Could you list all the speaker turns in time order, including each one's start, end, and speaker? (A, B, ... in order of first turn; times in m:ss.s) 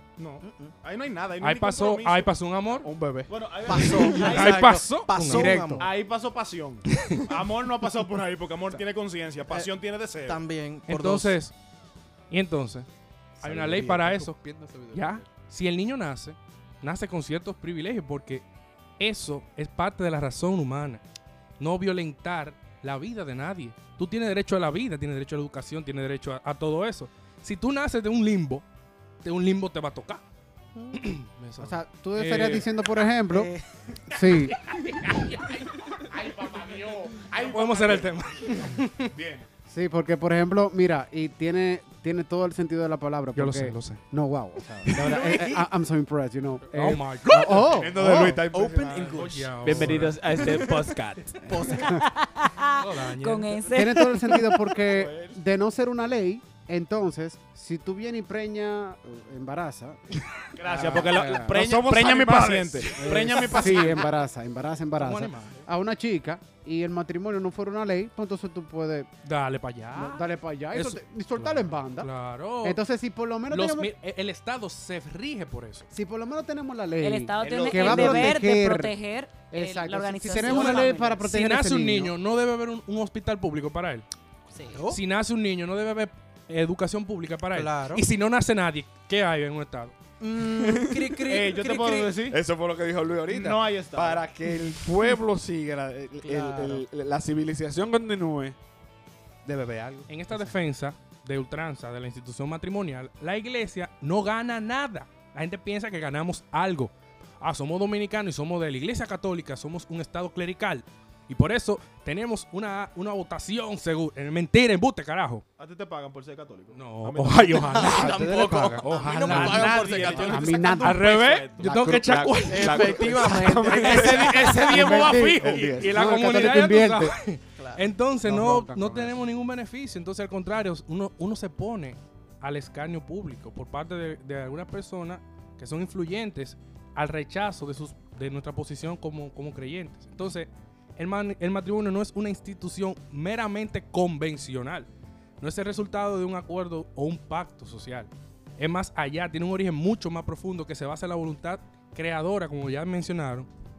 0:00.2-0:02.3 A
0:00.4-0:00.8 B
0:01.4-0:02.9 C
0:02.8-0:03.4 D
0:03.3-0:10.4 A
0:03.6-0:05.9 B
0:03.8-0:05.9 C
0:06.9-0:07.2 C
0:10.2-0:11.4 B
0:10.9-0:11.5 C
0:12.3-0:12.9 C
0:13.4-0:15.3 D
0:13.4-0:18.4 C
0:19.0-0:21.0 C
0:21.6-0:28.6 C
0:29.2-0:30.2 C
0:30.9-0:32.7 C
0:31.6-0:33.5 E
0:33.3-0:33.9 B
0:34.1-0:34.7 E
0:34.7-0:39.1 C
0:36.4-0:38.2 A
0:39.1-0:39.5 D
0:39.7-0:48.4 E
0:43.4-0:44.0 C
0:44.8-0:45.6 C
0:44.9-0:45.7 B
0:46.7-0:47.9 C
0:47.7-0:49.1 D
0:48.5-0:51.8 A
0:48.7-0:50.1 B
0:49.1-0:50.4 C
0:51.5-0:51.9 B
0:51.7-0:52.0 E
0:51.8-0:54.1 F
0:52.8-0:53.8 C
0:53.7-1:01.5 E
0:54.9-0:55.3 D
1:00.6-1:04.1 A
1:00.8-1:03.9 D
1:03.0-1:09.1 E
1:05.0-1:05.6 C
1:09.2-1:12.8 C
1:09.9-1:12.1 E
1:12.6-1:13.9 E
1:13.5-1:15.9 C
1:15.9-1:18.9 E
1:17.0-1:21.2 F
1:17.4-1:18.2 D
1:19.5-1:22.1 E
1:20.3-1:24.1 C
1:24.5-1:24.8 F
1:24.7-1:25.0 B
1:24.9-1:30.0 C
1:27.5-1:28.0 B
1:30.2-1:32.2 B
1:30.5-1:31.2 D
1:31.2-1:32.4 A
1:32.3-1:38.6 D
1:33.3-1:34.3 A
1:36.2-1:36.8 B
1:39.4-1:40.1 D
1:40.1-1:55.4 C
1:55.6-1:57.9 A
1:56.7-2:03.6 C
1:57.8-2:00.5 B
1:57.9-1:58.6 D
1:58.0-2:01.1 E
1:59.3-2:01.7 A
2:01.6-2:06.0 D
2:02.5-2:04.3 B
2:03.7-2:05.8 A
2:03.9-2:07.2 E
2:04.3-2:24.9 C
2:07.6-2:07.9 B
2:08.3-2:09.1 E
2:25.4-2:33.5 C